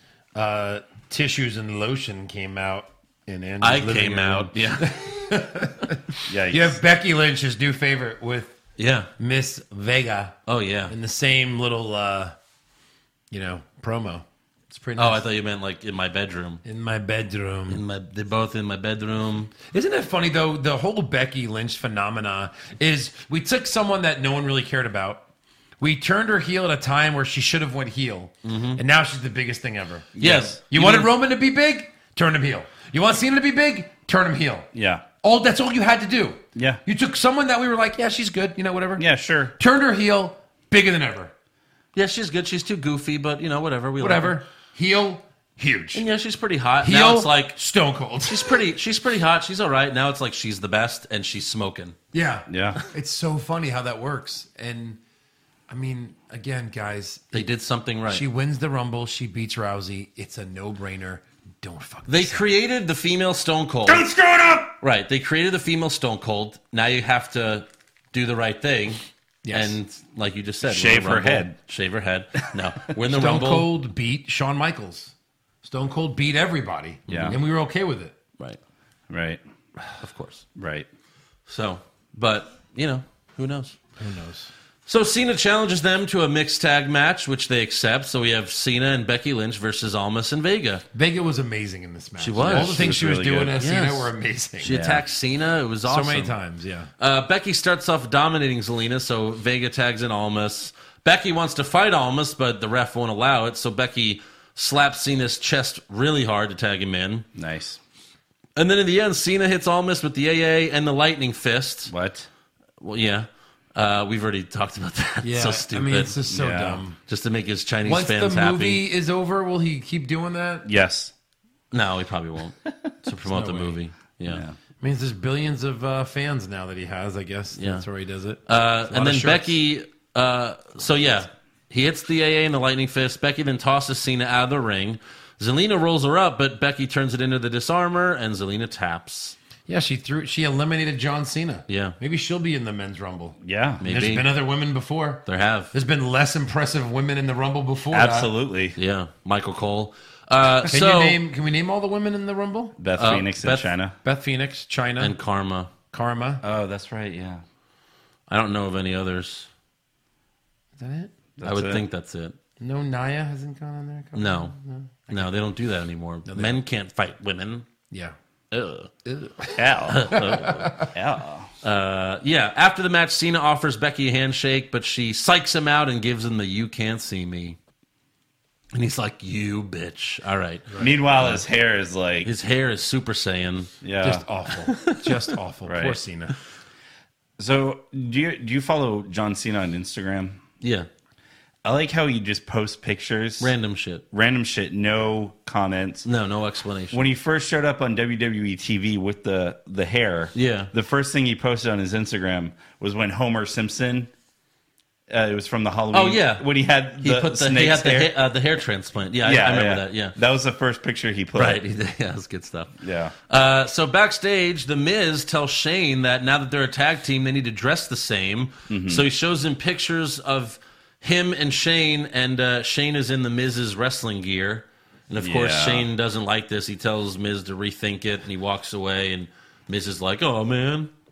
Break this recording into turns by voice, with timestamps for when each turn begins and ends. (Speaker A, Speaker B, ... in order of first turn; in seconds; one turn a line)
Speaker A: 0.3-8.5
Speaker B: 3.6-5.0
Speaker C: 6.3-6.8
Speaker B: 8.8-9.1
Speaker A: 9.2-10.4
Speaker B: 10.5-10.9
Speaker A: 10.9-12.3
Speaker A: 13.3-15.2
Speaker B: 14.9-16.6
Speaker A: 16.6-17.8
Speaker B: 17.7-19.5
Speaker A: 19.6-25.2
Speaker A: 25.8-34.7
Speaker B: 28.4-28.8
Speaker C: 30.2-30.5
Speaker B: 30.2-31.1
Speaker C: 34.7-35.0
Speaker A: 35.2-39.0
Speaker C: 36.5-36.8
Speaker C: 39.0-39.5
Speaker A: 39.6-41.3
Speaker B: 41.9-44.4
Speaker A: 44.0-46.0
Speaker B: 45.9-47.5
Speaker A: 46.8-48.6
Speaker B: 48.2-52.0
Speaker A: 52.1-55.0
Speaker C: 52.5-52.8
Speaker A: 55.7-57.5
Speaker B: 57.3-58.2
Speaker A: 58.1-62.4
Speaker B: 62.1-64.1
Speaker A: 63.9-64.7
Speaker B: 64.8-73.7
Speaker A: 69.4-69.8
Speaker C: 70.6-71.5
Speaker A: 73.1-75.1
Speaker A: 75.6-78.1
Speaker C: 77.1-77.4
Speaker B: 77.1-77.4
Speaker C: 79.1-79.4
Speaker B: 80.0-80.4
Speaker C: 80.5-80.9
Speaker B: 81.5-83.8
Speaker A: 84.0-84.5
Speaker B: 84.9-90.8
Speaker A: 90.9-94.8
Speaker B: 92.2-92.9
Speaker C: 92.4-93.5
Speaker B: 93.6-96.3
Speaker C: 94.6-95.0
Speaker A: 95.8-96.9
Speaker B: 97.0-107.2
Speaker C: 107.3-107.8
Speaker B: 108.5-111.9
Speaker C: 111.9-112.3
Speaker B: 112.8-116.1
Speaker A: 115.2-117.0
Speaker C: 116.3-116.8
Speaker B: 117.1-118.8
Speaker A: 117.8-120.7
Speaker C: 120.6-121.1
Speaker B: 121.7-124.4
Speaker A: 123.2-123.8
Speaker C: 124.2-124.6
Speaker A: 124.8-129.6
Speaker B: 127.5-127.8
Speaker B: 128.5-139.3
Speaker A: 139.7-148.3
Speaker B: 141.7-141.9
Speaker C: 143.4-143.8
Speaker B: 143.8-144.3
Speaker B: 145.3-145.7
Speaker C: 147.9-148.8
Speaker B: 148.8-151.2
Speaker A: 150.7-152.8
Speaker C: 152.8-153.9
Speaker B: 153.0-153.7
Speaker A: 154.0-155.1
Speaker B: 155.0-155.7
Speaker A: 155.9-156.4
Speaker C: 156.4-157.4
Speaker B: 158.3-159.5
Speaker A: 160.8-161.1
Speaker C: 161.4-161.8
Speaker B: 161.4-162.4
Speaker A: 162.6-165.3
Speaker B: 164.1-164.5
Speaker B: 165.1-167.7
Speaker A: 166.3-166.6
Speaker B: 168.5-168.9
Speaker A: 169.0-170.9
Speaker C: 169.5-171.5
Speaker B: 169.9-170.7
Speaker B: 171.6-177.6
Speaker B: 178.7-181.4
Speaker A: 180.7-181.0
Speaker C: 180.8-182.3
Speaker B: 182.2-183.7
Speaker C: 183.8-184.2
Speaker A: 184.0-186.3
Speaker B: 184.7-185.2
Speaker C: 185.7-186.0
Speaker C: 187.4-190.4
Speaker B: 190.6-190.9
Speaker C: 191.6-193.5
Speaker B: 193.4-194.0
Speaker C: 194.1-196.1
Speaker B: 196.0-197.1
Speaker C: 196.9-204.1
Speaker B: 200.3-200.7
Speaker C: 205.1-208.1
Speaker B: 205.9-206.4
Speaker B: 207.0-210.1
Speaker C: 209.2-211.6
Speaker B: 211.3-212.8
Speaker C: 212.8-213.1
Speaker B: 213.3-230.9
Speaker C: 218.7-219.1
Speaker C: 225.2-225.9